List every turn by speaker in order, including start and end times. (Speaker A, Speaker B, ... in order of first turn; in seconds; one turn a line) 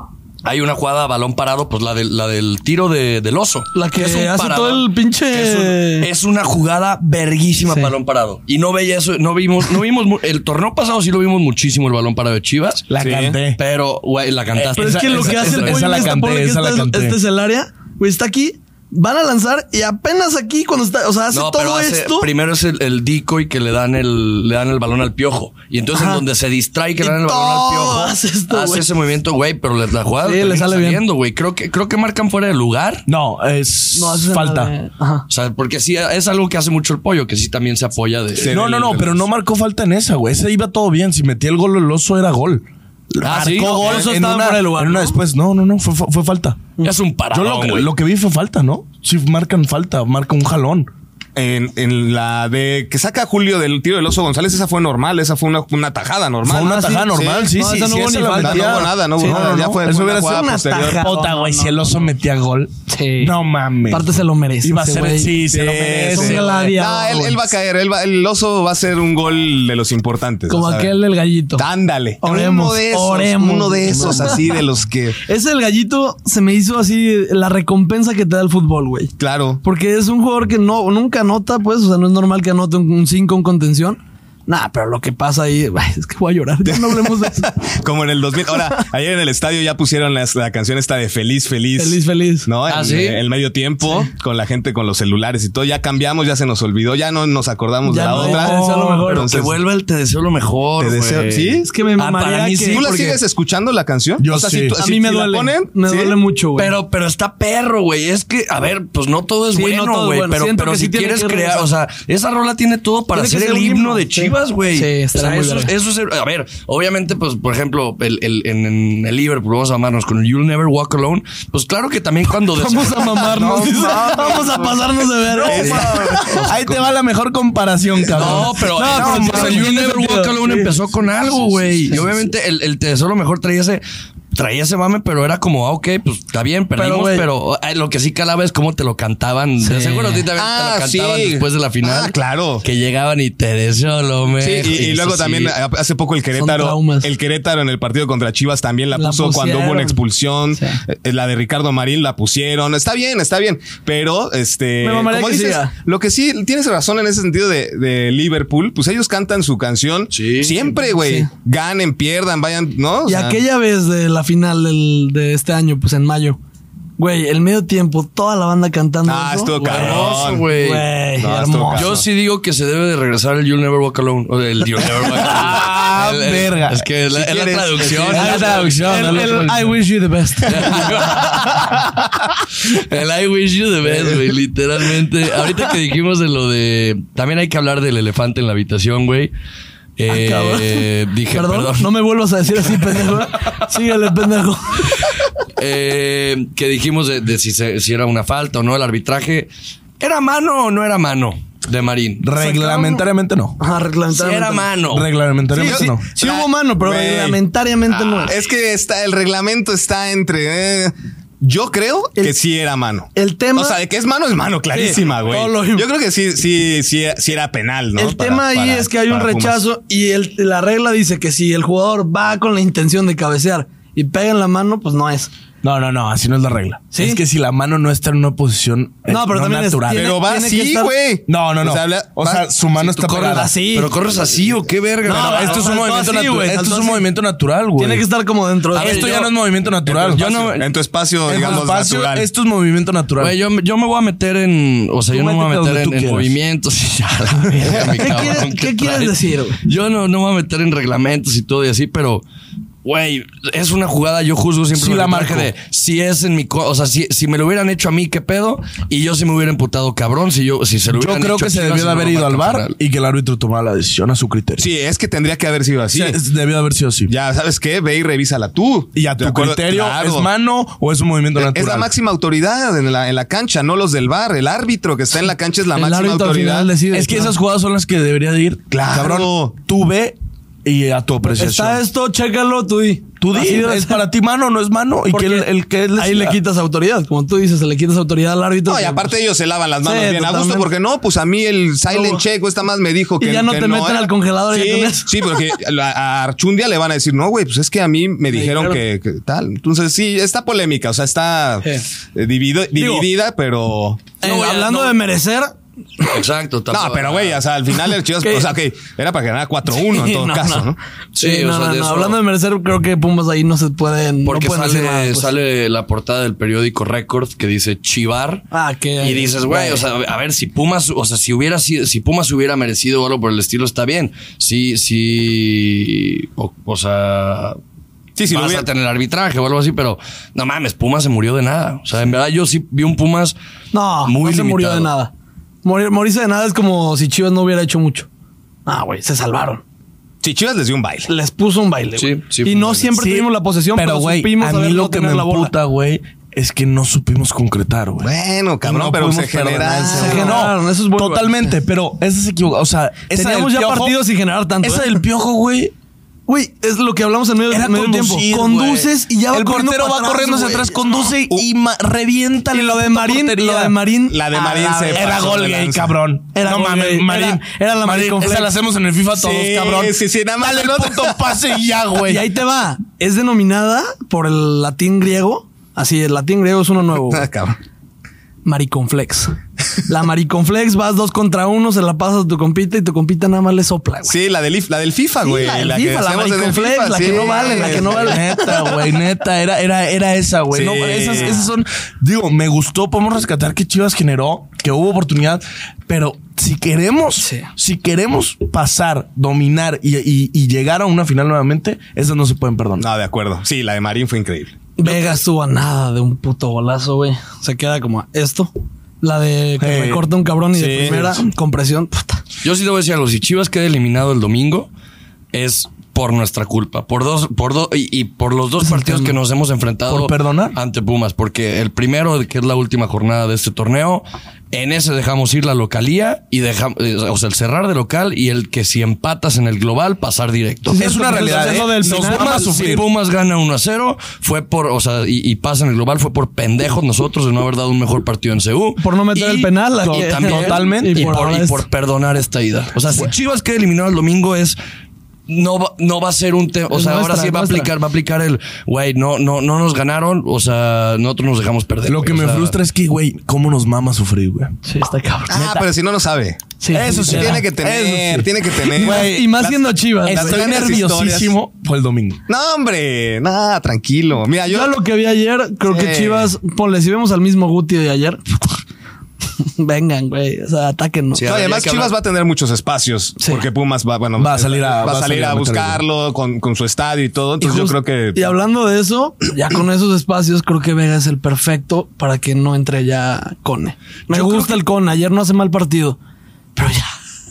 Speaker A: 0.4-12.9
Speaker B: 3.7-6.1
Speaker B: 7.7-7.9
Speaker C: 12.9-13.6
Speaker D: 13.0-13.4
Speaker A: 13.6-16.1
Speaker C: 14.5-17.2
Speaker B: 14.8-22.3
Speaker A: 21.3-33.1
Speaker B: 25.9-26.2
Speaker B: 27.0-28.9
Speaker B: 30.2-31.0
Speaker C: 33.1-34.7
Speaker B: 34.0-35.2
Speaker A: 35.3-38.6
Speaker D: 38.4-39.2
Speaker C: 38.5-46.6
Speaker A: 43.2-43.8
Speaker B: 43.6-45.2
Speaker D: 43.8-44.1
Speaker A: 46.8-47.9
Speaker C: 47.3-50.9
Speaker D: 51.4-57.6
Speaker C: 56.4-66.6
Speaker B: 56.6-59.5
Speaker D: 58.4-61.1
Speaker B: 60.3-62.0
Speaker B: 62.9-63.4
Speaker B: 63.9-65.4
Speaker D: 65.4-70.9
Speaker B: 66.1-67.4
Speaker B: 70.5-71.7
Speaker D: 71.6-75.2
Speaker B: 72.2-74.4
Speaker B: 75.2-79.1
Speaker D: 79.2-79.6
Speaker B: 79.6-87.5
Speaker D: 86.7-99.6
Speaker B: 91.8-92.5
Speaker A: 92.7-93.2
Speaker B: 97.8-99.3
Speaker A: 98.1-102.8
Speaker D: 100.8-101.7
Speaker B: 101.6-103.2
Speaker D: 102.6-106.2
Speaker C: 104.2-104.8
Speaker B: 104.8-106.7
Speaker A: 106.6-123.5
Speaker B: 109.5-111.7
Speaker B: 113.1-115.7
Speaker B: 122.5-126.5
Speaker D: 123.3-124.9
Speaker C: 125.3-130.7
Speaker D: 125.5-126.5
Speaker A: 125.5-126.7
Speaker A: 128.1-145.6
Speaker B: 128.6-130.3
Speaker B: 136.8-137.3
Speaker B: 139.6-140.2
Speaker D: 140.4-142.6
Speaker D: 144.4-163.4
Speaker B: 146.4-147.1
Speaker B: 148.9-150.0
Speaker B: 150.6-150.8
Speaker B: 154.8-155.7
Speaker A: 160.1-160.7
Speaker B: 160.9-161.3
Speaker B: 163.1-166.4
Speaker B: 167.0-172.0
Speaker D: 169.1-170.5
Speaker A: 169.6-170.9
Speaker D: 171.2-172.0
Speaker A: 171.7-179.6
Speaker C: 174.8-181.5
Speaker B: 178.1-180.9
Speaker A: 180.5-181.8
Speaker A: 182.6-189.3
Speaker A: 190.0-191.9
Speaker B: 190.1-195.1
Speaker A: 195.6-199.5
Speaker A: 200.0-202.2
Speaker C: 202.2-203.6
Speaker B: 202.4-203.0
Speaker B: 203.6-204.7
Speaker A: 204.1-205.1
Speaker C: 204.9-206.0
Speaker B: 205.5-208.3
Speaker D: 205.6-207.4
Speaker D: 208.2-219.6
Speaker B: 213.1-213.8
Speaker B: 214.7-215.9
Speaker B: 218.0-225.3
Speaker C: 225.6-230.2
Speaker B: 226.9-227.2
Speaker B: 229.1-230.9
Speaker D: 229.9-232.5
Speaker C: 231.3-233.5
Speaker A: 232.9-235.7
Speaker B: 233.1-233.9
Speaker B: 235.1-237.1
Speaker C: 235.1-238.0
Speaker B: 237.8-239.2
Speaker C: 238.7-240.3
Speaker A: 238.8-239.3
Speaker D: 239.9-242.3
Speaker A: 240.0-240.7
Speaker C: 241.2-243.3
Speaker A: 243.2-252.2
Speaker C: 245.1-246.3
Speaker C: 247.5-247.8
Speaker B: 248.0-249.6
Speaker A: 252.8-262.8
Speaker C: 254.7-255.5
Speaker C: 260.9-264.6
Speaker D: 264.6-266.2
Speaker C: 265.9-267.1
Speaker D: 267.1-270.3
Speaker C: 268.9-271.9
Speaker D: 271.4-276.7
Speaker B: 275.8-277.4
Speaker C: 276.9-281.8
Speaker D: 278.7-279.5
Speaker B: 281.2-284.0
Speaker C: 283.2-286.4
Speaker B: 285.1-289.1
Speaker D: 288.7-304.1
Speaker B: 289.8-290.7
Speaker B: 291.9-292.2
Speaker B: 293.2-295.4
Speaker B: 298.3-298.8
Speaker B: 302.8-303.1
Speaker B: 304.2-306.1
Speaker A: 304.2-305.0
Speaker A: 306.0-307.4
Speaker D: 306.7-310.8
Speaker B: 308.2-308.5
Speaker B: 309.7-315.3
Speaker A: 311.1-312.2
Speaker A: 314.2-318.4
Speaker B: 318.5-319.8
Speaker A: 319.0-327.6
Speaker D: 328.1-328.6
Speaker A: 328.3-333.4
Speaker B: 333.7-335.1
Speaker A: 334.1-334.9
Speaker B: 335.6-338.1
Speaker B: 338.6-339.6
Speaker D: 340.2-341.1
Speaker B: 341.1-345.5
Speaker A: 342.0-342.9
Speaker C: 342.9-348.1
Speaker D: 348.0-350.4
Speaker C: 348.6-354.0
Speaker B: 349.7-351.6
Speaker B: 353.1-355.0
Speaker C: 354.6-355.7
Speaker B: 356.3-360.8
Speaker C: 357.5-363.8
Speaker B: 362.5-365.2
Speaker D: 364.1-365.9
Speaker C: 364.6-372.2
Speaker B: 366.3-368.6
Speaker D: 369.1-371.2
Speaker B: 372.0-377.3
Speaker D: 377.1-377.6
Speaker B: 378.4-379.4
Speaker B: 379.9-384.1
Speaker D: 384.1-388.2
Speaker B: 385.2-388.8
Speaker C: 387.4-402.9
Speaker D: 390.5-391.4
Speaker B: 397.2-397.5
Speaker D: 402.8-404.6
Speaker B: 404.8-412.2
Speaker C: 409.6-410.1
Speaker D: 410.5-411.2
Speaker A: 412.4-414.7
Speaker A: 415.3-444.6
Speaker B: 418.6-419.1
Speaker C: 419.9-420.6
Speaker B: 430.7-432.6
Speaker C: 430.8-432.9
Speaker B: 438.8-441.6
Speaker C: 439.8-441.1
Speaker A: 445.3-452.6
Speaker B: 446.7-447.7
Speaker C: 451.9-454.6
Speaker B: 454.6-455.5
Speaker D: 455.3-456.4
Speaker C: 455.3-455.6
Speaker B: 456.6-457.5
Speaker C: 456.7-459.4
Speaker D: 457.1-461.3
Speaker B: 458.7-460.7
Speaker C: 460.0-462.2
Speaker D: 462.3-464.8
Speaker B: 464.5-468.6
Speaker D: 465.7-466.3
Speaker B: 469.6-471.3
Speaker A: 471.1-471.9
Speaker D: 471.3-478.3
Speaker B: 473.2-473.4
Speaker C: 474.2-475.8
Speaker B: 477.4-486.0
Speaker A: 484.1-484.6
Speaker B: 486.6-486.9